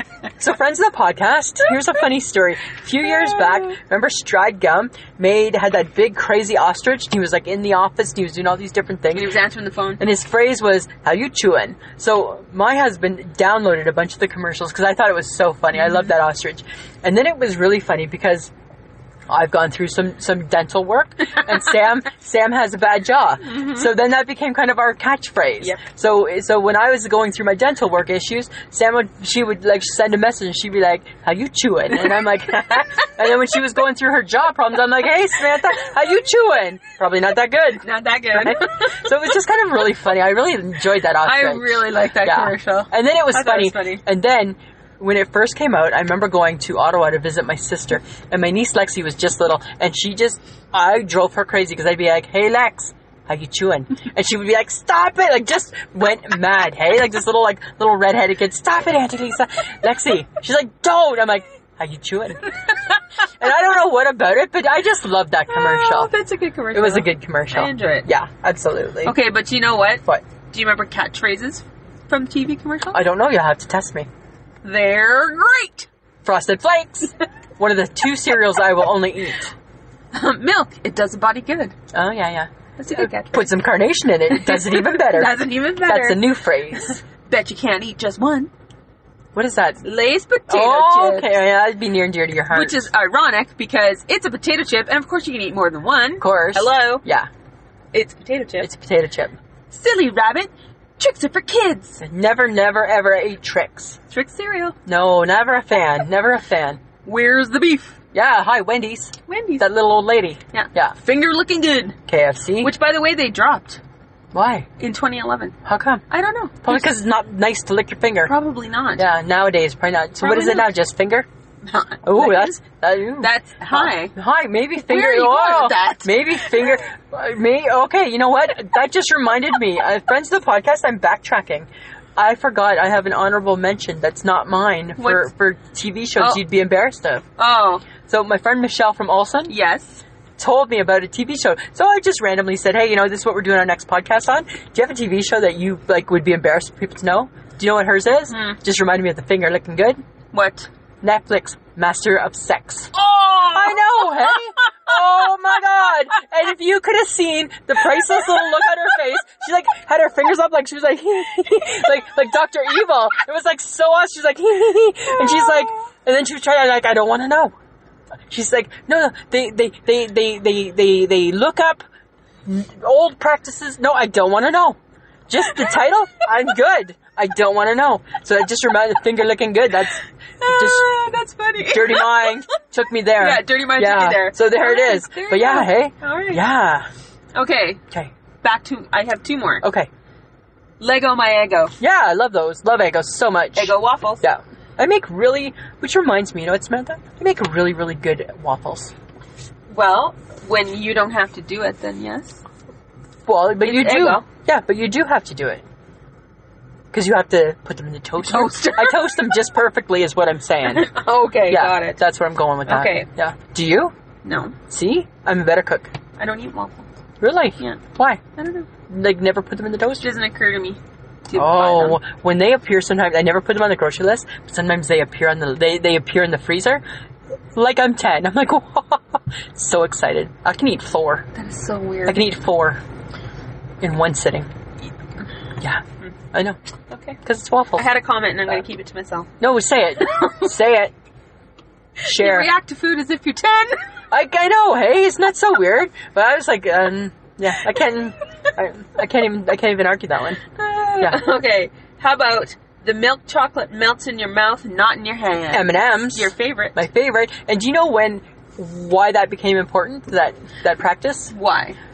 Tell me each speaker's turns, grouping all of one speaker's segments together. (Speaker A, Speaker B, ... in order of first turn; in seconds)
Speaker A: 0.4-9.3, 10.0-18.5, 19.3-62.5, 63.4-66.1, 66.7-69.2, 72.9-74.1, 76.2-79.5, 81.9-87.0, 89.3-89.8, 90.5-92.9, 96.2-97.3, 98.6-99.4, 102.0-104.0, 104.9-106.8, 108.1-111.0, 112.1-112.7, 114.3-114.7, 115.7-116.0, 116.6-118.3, 119.0-121.3, 122.0-137.3, 138.1-139.5, 140.4-150.0, 151.0-167.5, 168.3-171.8, 172.4-174.8, 175.3-180.9, 181.6-186.9, 189.6-189.9, 191.8-198.9, 203.3-205.7, 206.9-213.9, 214.7-215.9, 217.2-218.2, 218.9-220.1, 221.3-226.8, 227.5-231.3, 232.1-232.8, 233.8-234.5, 236.3-236.6, 237.2-237.9, 239.4-240.9, 242.0-242.5, 244.1-250.4, 255.5-261.3
Speaker B: 3.1-3.7, 9.1-10.0, 15.8-16.1, 23.4-23.9, 37.8-39.1, 41.2-44.0, 65.5-68.1, 69.0-73.0, 74.6-75.9, 80.1-81.8, 82.8-83.5, 84.3-88.5, 89.8-91.3, 92.5-97.0, 97.9-98.7, 99.7-102.0, 104.1-104.8, 107.0-108.0, 109.3-109.7, 110.5-112.0, 112.6-113.8, 114.8-115.6, 116.1-116.9, 118.2-119.0, 120.2-120.8, 121.6-122.6, 123.2-124.1, 124.8-126.6, 135.0-135.3, 136.2-136.4, 137.4-137.9, 139.5-140.0, 148.3-148.6, 150.3-150.7, 152.9-154.9, 180.4-182.4, 183.2-186.4, 187.3-187.8, 188.4-189.7, 190.8-191.7, 193.6-194.2, 199.7-202.4, 203.6-204.2, 208.2-209.2, 210.7-212.0, 212.7-213.1, 214.2-214.6, 216.2-216.9, 218.4-218.7, 220.0-222.0, 231.3-232.3, 236.9-237.2, 237.8-239.3, 240.1-240.4, 242.0-243.8, 250.6-256.8, 261.3-261.8